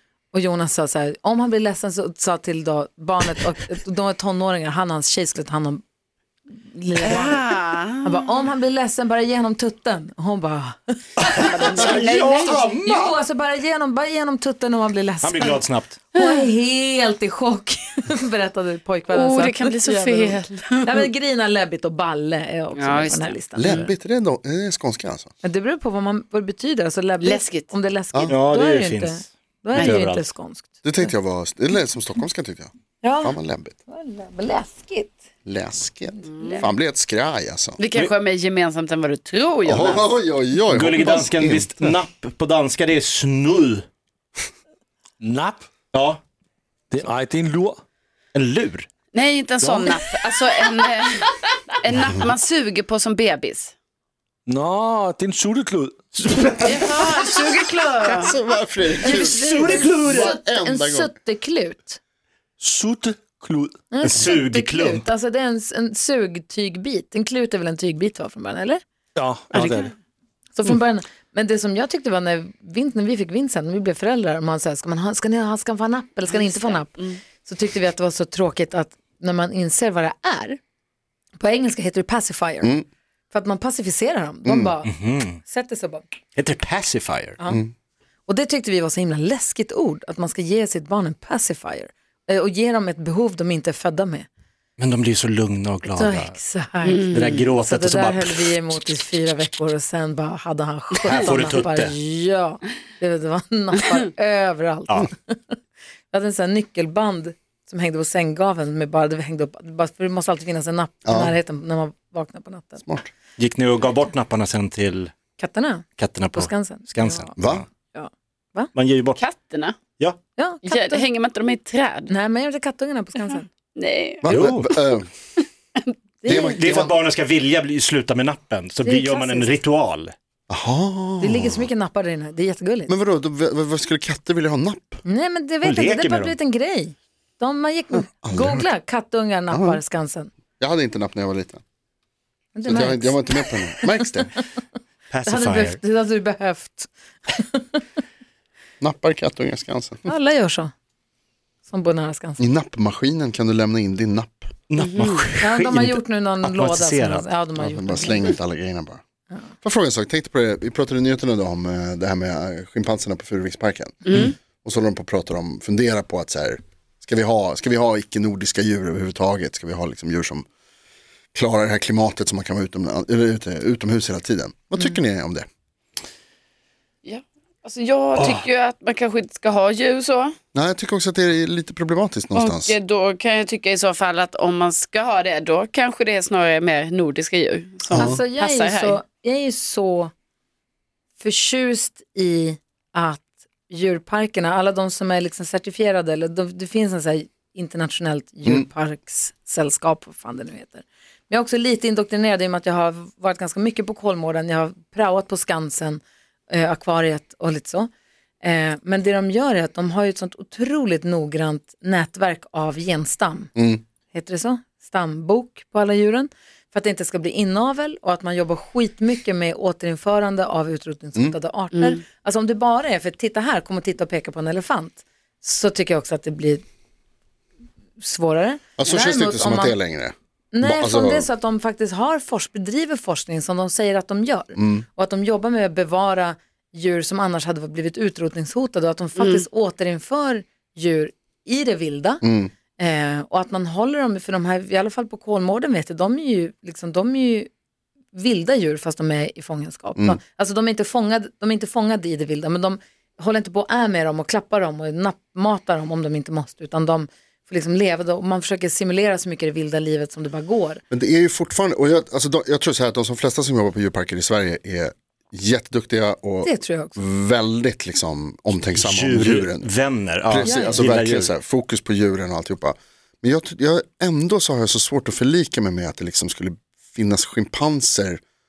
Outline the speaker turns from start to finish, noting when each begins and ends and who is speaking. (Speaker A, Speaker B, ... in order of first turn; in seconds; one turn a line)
Speaker A: 0.3-5.8
Speaker A: 6.7-7.4
Speaker B: 7.0-8.2
Speaker A: 8.0-23.9
Speaker B: 11.4-12.8
Speaker C: 11.4-13.1
Speaker C: 15.2-16.0
Speaker B: 16.1-16.5
Speaker B: 19.1-21.1
Speaker B: 22.7-23.9
Speaker D: 23.5-25.3
Speaker A: 25.4-31.1
Speaker B: 27.2-27.7
Speaker C: 28.3-29.2
Speaker C: 29.8-30.2
Speaker D: 30.8-32.7
Speaker A: 33.0-35.2
Speaker D: 33.2-33.8
Speaker D: 35.5-37.8
Speaker B: 36.3-36.7
Speaker B: 37.8-40.1
Speaker D: 39.6-41.7
Speaker C: 40.7-43.8
Speaker E: 45.2-45.7
Speaker C: 45.9-46.2
Speaker E: 46.9-47.8
Speaker C: 48.3-48.9
Speaker B: 49.1-53.7
Speaker E: 54.5-56.5
Speaker C: 56.1-57.3
Speaker B: 56.6-58.3
Speaker D: 58.0-61.1
Speaker A: 59.0-62.0
Speaker C: 59.2-60.3
Speaker E: 62.6-63.8
Speaker A: 63.9-68.8
Speaker C: 64.0-65.0
Speaker E: 69.1-69.9
Speaker B: 69.5-69.9
Speaker A: 70.5-80.6
Speaker B: 76.3-77.2
Speaker A: 81.4-82.7
Speaker A: 83.3-86.0
Speaker D: 84.4-84.7
Speaker C: 84.8-85.4
Speaker C: 86.3-87.4
Speaker A: 88.3-94.3
Speaker C: 94.8-96.3
Speaker A: 95.9-105.5
Speaker B: 96.8-97.4
Speaker C: 97.1-99.0
Speaker C: 101.0-101.9
Speaker A: 106.1-112.8
Speaker D: 111.0-111.3
Speaker C: 113.4-115.1
Speaker A: 115.4-117.3
Speaker C: 116.0-117.6
Speaker D: 117.4-117.6
Speaker A: 117.9-118.7
Speaker C: 118.7-119.2
Speaker B: 119.2-119.8
Speaker A: 120.3-121.0
Speaker B: 120.6-122.1
Speaker A: 122.1-123.5
Speaker B: 123.3-124.2
Speaker D: 124.2-125.1
Speaker C: 124.3-124.7
Speaker A: 126.2-126.9
Speaker D: 126.2-126.9
Speaker C: 126.3-130.1
Speaker A: 128.8-129.6
Speaker D: 130.5-131.7
Speaker A: 131.2-132.9
Speaker D: 132.9-135.0
Speaker A: 135.1-140.3
Speaker C: 135.6-136.3
Speaker D: 138.1-138.7
Speaker D: 139.5-139.8
Speaker D: 140.6-141.6
Speaker A: 142.5-143.6
Speaker D: 142.7-144.3
Speaker C: 145.1-145.8
Speaker A: 145.2-147.8
Speaker D: 148.8-150.0
Speaker A: 150.1-150.7
Speaker A: 151.7-152.4
Speaker D: 152.4-154.5
Speaker C: 154.7-157.2
Speaker B: 154.8-155.3
Speaker A: 155.4-158.3
Speaker D: 157.6-159.0
Speaker D: 159.6-170.4
Speaker B: 164.1-164.3
Speaker D: 171.3-175.4
Speaker B: 177.0-180.3
Speaker D: 180.5-182.8
Speaker B: 182.3-189.0
Speaker D: 187.9-188.2
Speaker A: 187.9-190.1
Speaker A: 191.2-207.9
Speaker A: 208.4-213.5
Speaker D: 213.6-213.8
Speaker A: 214.1-226.6
Speaker B: 221.7-222.0
Speaker A: 228.0-229.8
Speaker D: 228.8-231.3
Speaker A: 230.5-242.2
Speaker D: 234.6-234.8
Speaker B: 239.2-239.4
Speaker D: 242.2-242.5
Speaker A: 242.8-247.5
Speaker A: 248.1-260.8
Speaker D: 260.9-269.7
Speaker A: 266.4-267.0
Speaker C: 268.7-271.3
Speaker D: 270.3-278.2
Speaker A: 270.4-270.9